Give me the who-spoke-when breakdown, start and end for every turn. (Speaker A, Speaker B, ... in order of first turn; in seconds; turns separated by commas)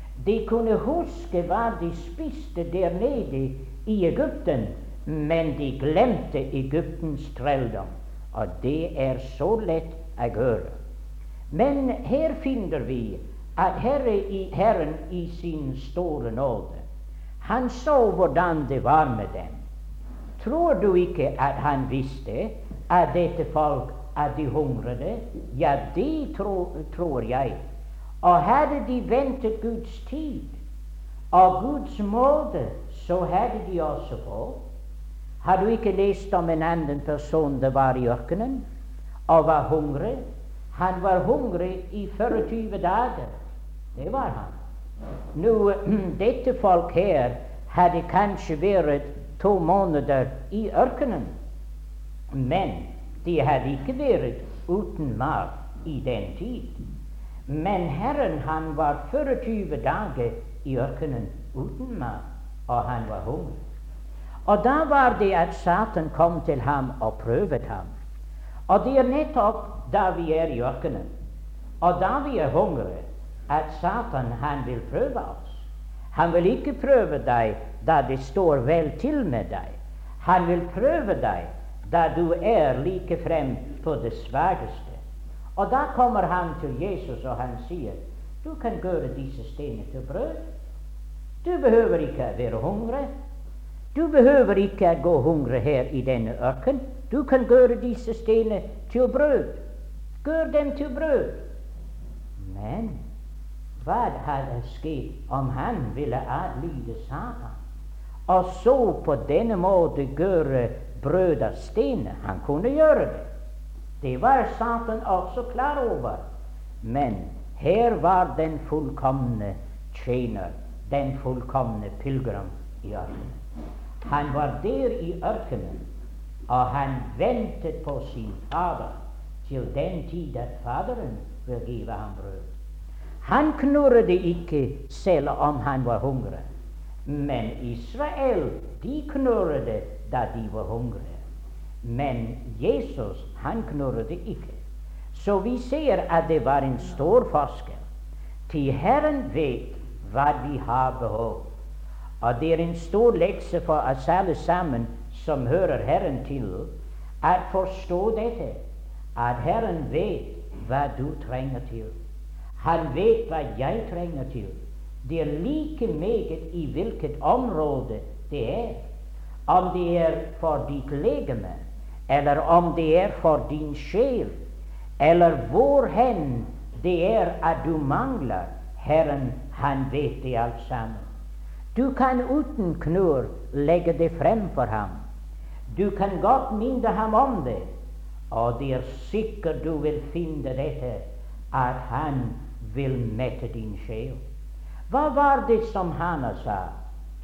Speaker A: 0.2-10.8, Speaker A: 11.5-16.9, Speaker A: 17.4-19.6, Speaker A: 20.4-27.6, Speaker A: 28.2-30.6, Speaker A: 31.3-34.6, Speaker A: 35.4-38.6, Speaker A: 39.3-40.2, Speaker A: 40.7-43.3, Speaker A: 44.0-44.6, Speaker A: 45.4-51.4, Speaker A: 52.3-56.8, Speaker A: 57.5-63.6, Speaker A: 64.5-67.9, Speaker A: 68.7-71.1, Speaker A: 71.8-85.0, Speaker A: 85.6-90.5, Speaker A: 91.4-93.1, Speaker A: 93.9-99.6, Speaker A: 100.2-101.4, Speaker A: 102.4-103.0, Speaker A: 103.8-107.6, Speaker A: 108.3-113.3, Speaker A: 114.0-116.2, Speaker A: 116.8-123.4, Speaker A: 124.0-125.9, Speaker A: 126.5-132.5, Speaker A: 133.2-136.5, Speaker A: 137.1-141.2, Speaker A: 141.8-144.6, Speaker A: 145.1-147.9, Speaker A: 148.5-151.5, Speaker A: 152.2-158.6, Speaker A: 159.2-161.9, Speaker A: 162.6-168.8, Speaker A: 169.5-174.4, Speaker A: 175.0-181.1, Speaker A: 181.8-185.0, Speaker A: 185.7-187.7, Speaker A: 188.3-194.2, Speaker A: 194.9-196.7